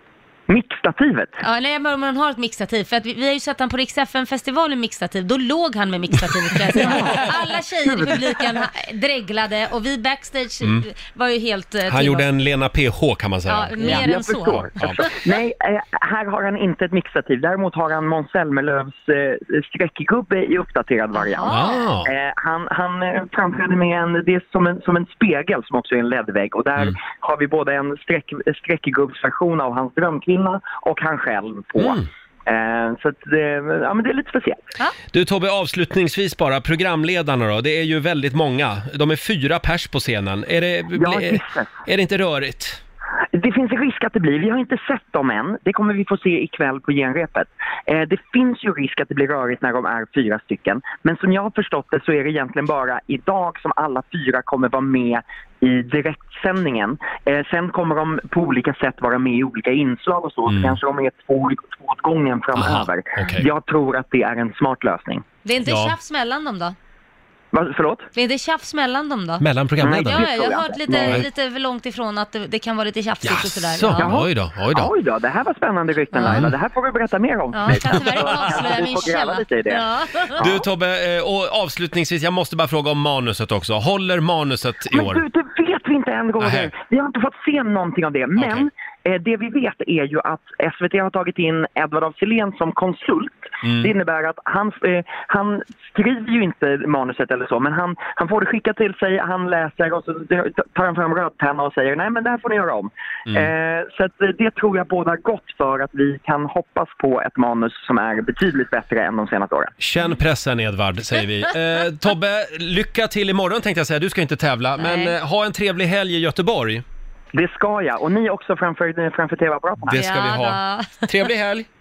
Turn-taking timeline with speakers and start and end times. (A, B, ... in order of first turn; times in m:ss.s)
0:00.5-0:01.4 A
0:01.4-0:12.3 B
0:06.8-0:08.4 A
0:06.9-0:07.3 C
0:11.9-0:14.1 C
0:13.5-0:15.3 B
0:13.8-0:34.7 A
0:14.8-0:15.1 C
0:21.2-0:21.8 B
0:21.5-0:22.1 C
0:31.8-0:32.1 C
0:35.1-0:42.8 C
0:40.9-0:41.7 A
0:43.3-1:05.2 A
1:00.5-1:00.8 C
1:02.6-1:03.5 C
1:05.4-1:06.8 B
1:05.7-1:06.0 C
1:07.5-1:08.1 A
1:08.2-1:09.4 B
1:09.4-1:10.2 C
1:09.8-1:11.2 A
1:10.0-1:14.1 B
1:13.2-1:14.9 C
1:14.0-1:19.8 A
1:16.1-1:16.5 B
1:16.2-1:16.5 C
1:17.5-1:20.5 B
1:20.4-1:25.2 C
1:24.9-1:49.7 A
1:26.4-1:26.7 C
1:28.4-1:28.7 C
1:33.6-1:33.9 C
1:49.8-1:56.8 C
1:54.8-1:55.2 B
1:57.3-2:00.0 A
1:59.9-2:01.7 C
1:59.9-2:01.1 B